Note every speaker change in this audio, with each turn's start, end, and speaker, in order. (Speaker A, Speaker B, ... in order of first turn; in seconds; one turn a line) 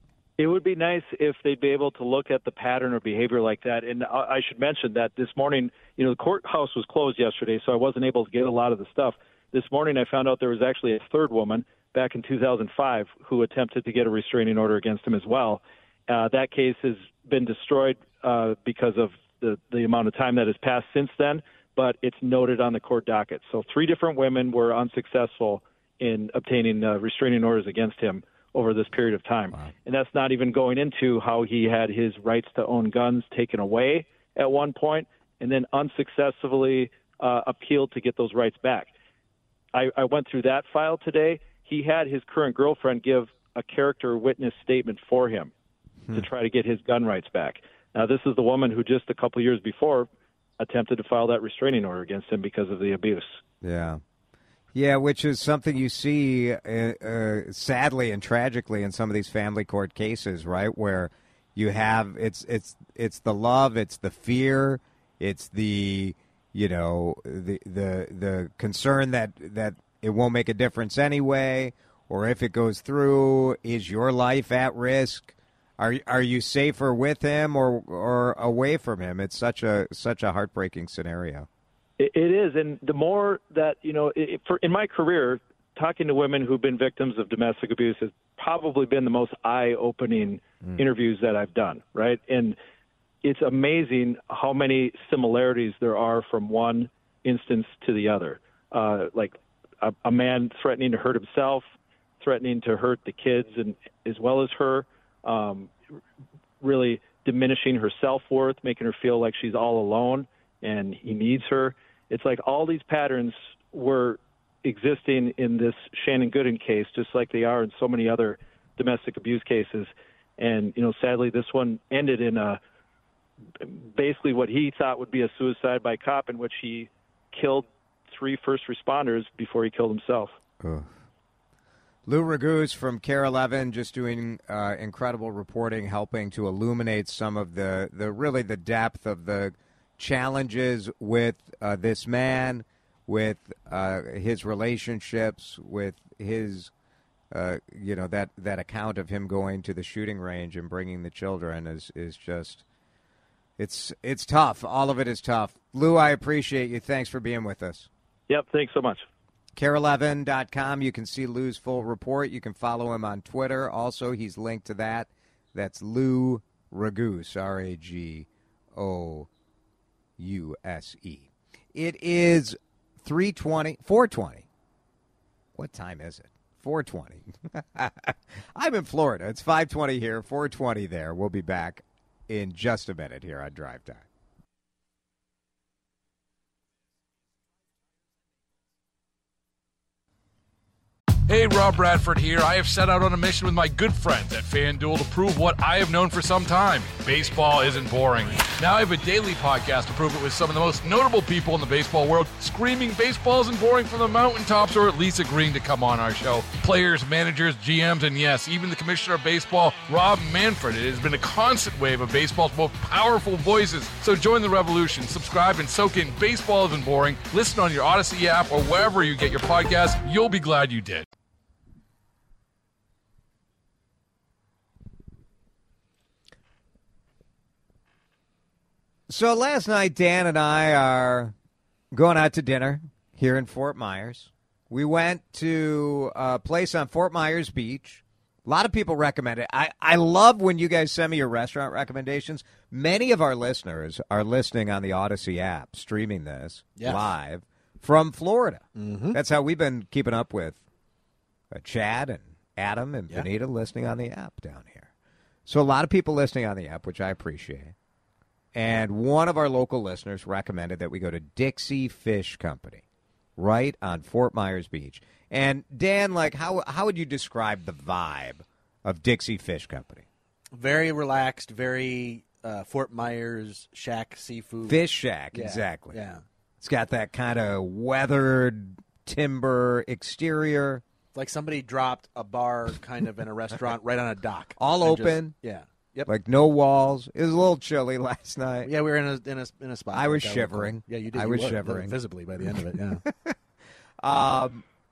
Speaker A: 0.4-38.9
Speaker A: 39.7-45.5
Speaker A: 46.1-50.1
Speaker A: 50.6-53.4
Speaker B: 53.6-54.0
Speaker B: 54.7-81.5
Speaker A: 82.0-92.6
Speaker A: 93.2-101.7
Speaker A: 102.2-105.7
Speaker A: 106.6-122.6
Speaker A: 123.6-130.3
Speaker B: 130.6-130.9
Speaker B: 132.1-146.7
Speaker B: 147.3-152.6
Speaker B: 153.6-157.9
Speaker A: 158.3-159.1
Speaker B: 159.6-169.3
Speaker B: 170.2-174.4
Speaker B: 175.5-184.0
Speaker C: 191.3-221.1
Speaker B: 229.1-231.3
Speaker B: 231.9-250.6
Speaker D: 246.8-247.1
Speaker D: 248.8-249.2
Speaker B: 251.5-254.9
Speaker B: 255.4-257.7
Speaker B: 258.5-262.8
Speaker B: 263.4-270.1
Speaker D: 270.5-274.8
Speaker B: 274.6-276.0
Speaker D: 275.3-276.2
Speaker B: 276.6-280.8
Speaker D: 281.1-286.1
Speaker B: 284.6-285.3
Speaker B: 286.1-288.7
Speaker D: 288.6-293.0
Speaker B: 289.9-292.5
Speaker B: 293.0-293.4
Speaker B: 294.0-294.6